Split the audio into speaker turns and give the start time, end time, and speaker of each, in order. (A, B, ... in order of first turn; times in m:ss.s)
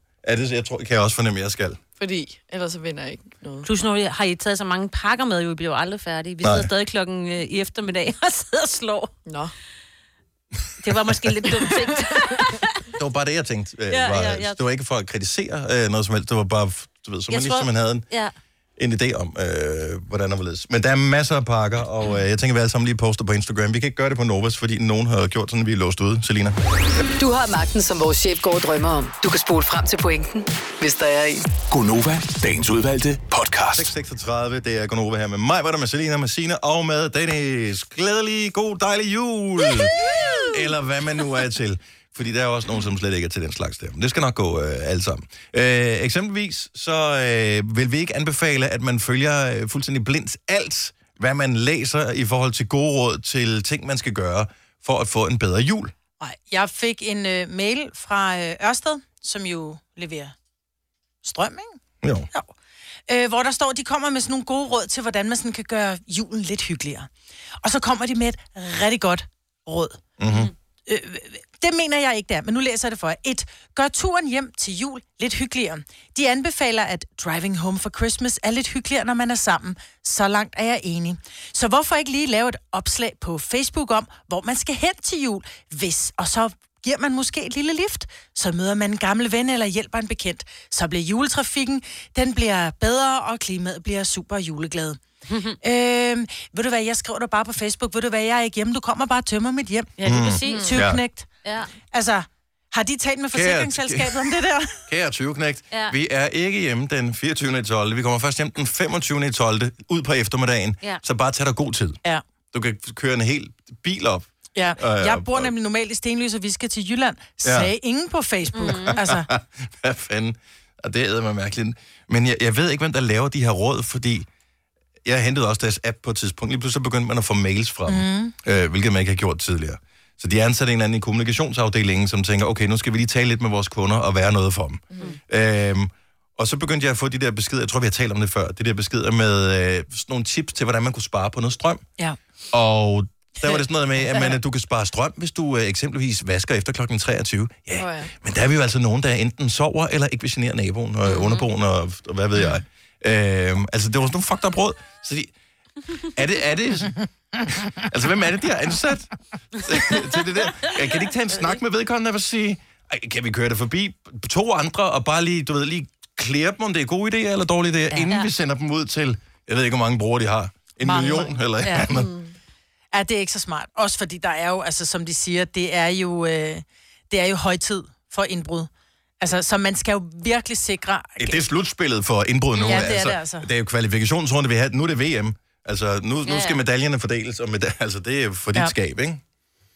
0:00.2-0:01.8 A
0:02.0-0:03.7 B
0:03.6-0:09.1 C
0:06.4-0:06.7 A
0:09.2-0:09.5 B
0:10.8-0:12.8 C
0:11.5-0:12.1 B
0:12.9-0:18.0 A
0:13.9-0:14.6 C
0:17.3-0:18.3 C
0:18.8-0:26.6 A
0:27.2-0:31.4 D
0:31.6-0:33.9 E
0:33.7-0:55.9 A
0:56.2-1:00.3 F
1:01.2-1:01.8 F
1:02.0-1:02.3 A
1:03.1-1:07.1 F
1:07.6-1:10.0 F
1:10.2-1:10.5 A
1:10.9-1:35.0 F
1:35.3-1:35.6 C
1:35.6-1:41.3 F
1:40.0-1:40.9 C
1:40.0-1:41.0 A
1:40.5-1:40.7 B
1:41.4-1:41.7 C
1:41.9-1:44.8 F
1:43.3-1:44.3 A
1:44.9-1:52.0 A
1:45.7-1:46.0 C
1:52.5-1:55.5 A
1:54.5-1:59.3 F
1:57.4-1:57.7 A
1:58.5-1:59.0 C
1:58.6-2:04.3 A
2:05.0-2:21.8 A
2:07.9-2:08.3 F
2:22.5-2:35.3 A
2:27.8-2:28.1 B
2:31.1-2:31.5 C
2:36.1-2:37.0 A
2:37.5-2:52.1 A
2:39.7-2:41.0 C
2:50.8-2:51.8 F
2:51.6-2:52.0 C
2:51.9-2:52.3 B
2:52.9-2:58.7 F
2:59.2-3:01.4 F
3:01.2-3:09.2 A
3:02.5-3:03.4 F
3:06.2-3:06.6 C